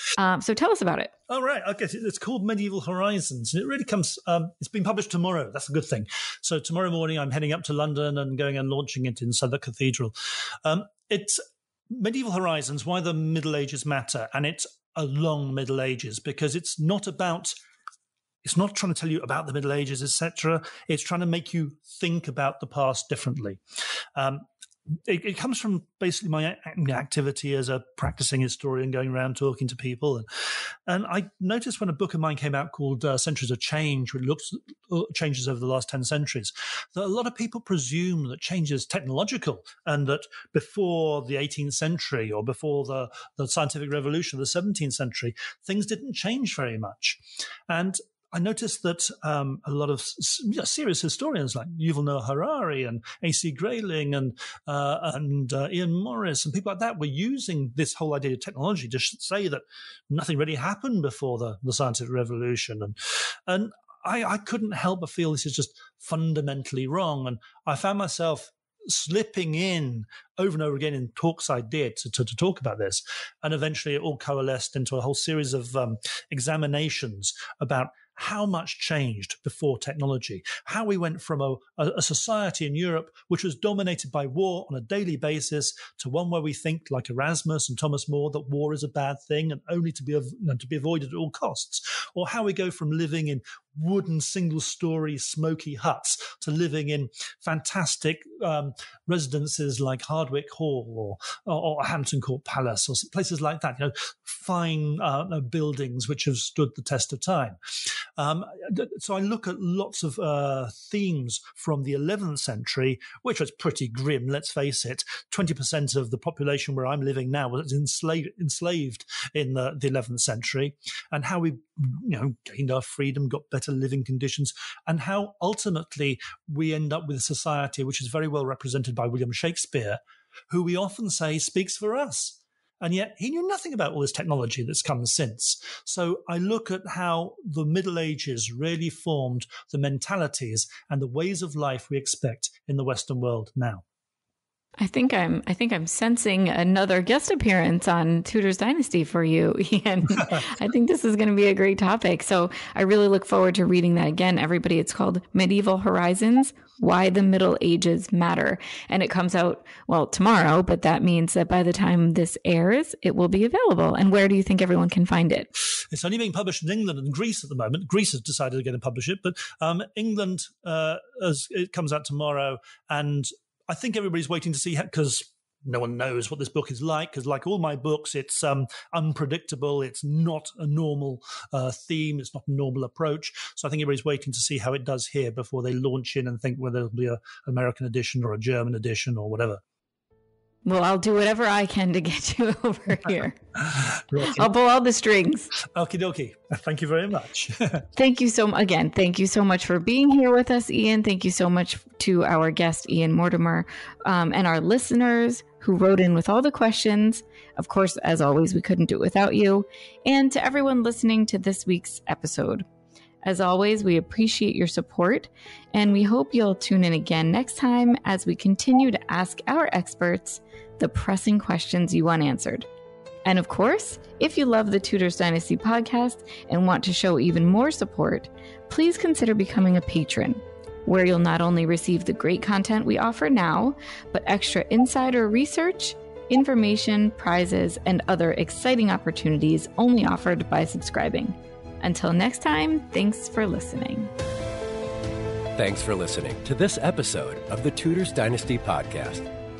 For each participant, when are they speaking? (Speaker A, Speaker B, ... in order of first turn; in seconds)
Speaker A: 0.1-1.1, 144.8-165.5, 190.6-193.4, 194.1-195.5, 197.9-212.6, 213.2-222.7, 223.2-244.1
Speaker B: 1.3-11.4, 11.9-17.5, 18.4-23.6, 24.1-24.4, 25.0-143.8, 165.8-189.6, 193.8-194.4, 195.6-197.9
Speaker C: 245.5-249.3